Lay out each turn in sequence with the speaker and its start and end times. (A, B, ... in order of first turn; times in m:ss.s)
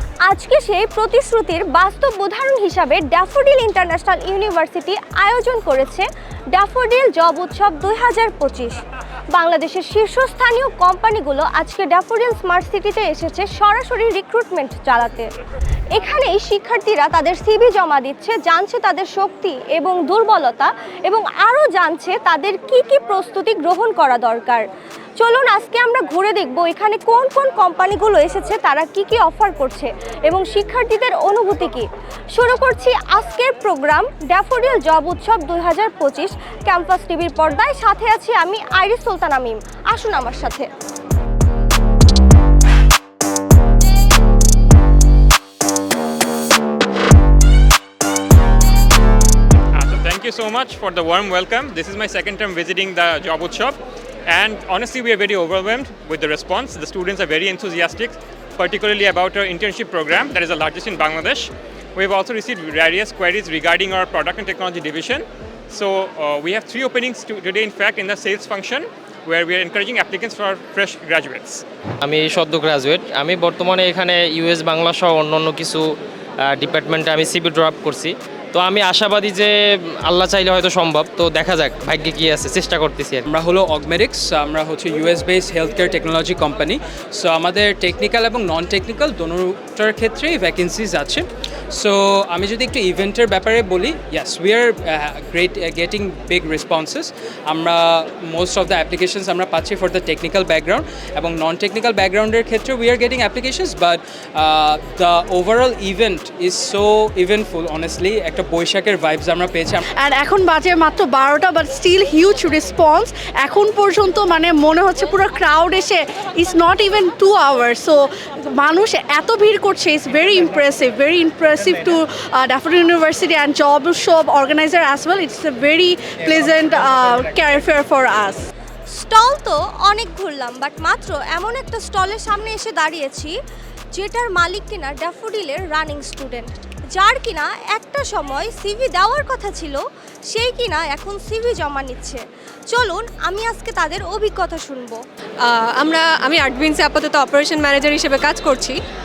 0:00.3-0:08.8 A
0:09.3-0:15.3 A
0:15.9-0:24.6 A
0:25.2-0:40.6 A
0:49.7-1:11.6 B
1:12.0-1:23.2 C
1:23.2-1:49.8 D
1:50.0-2:08.5 E
2:08.9-2:13.3 A
2:13.9-2:25.0 A
2:25.4-2:28.8 F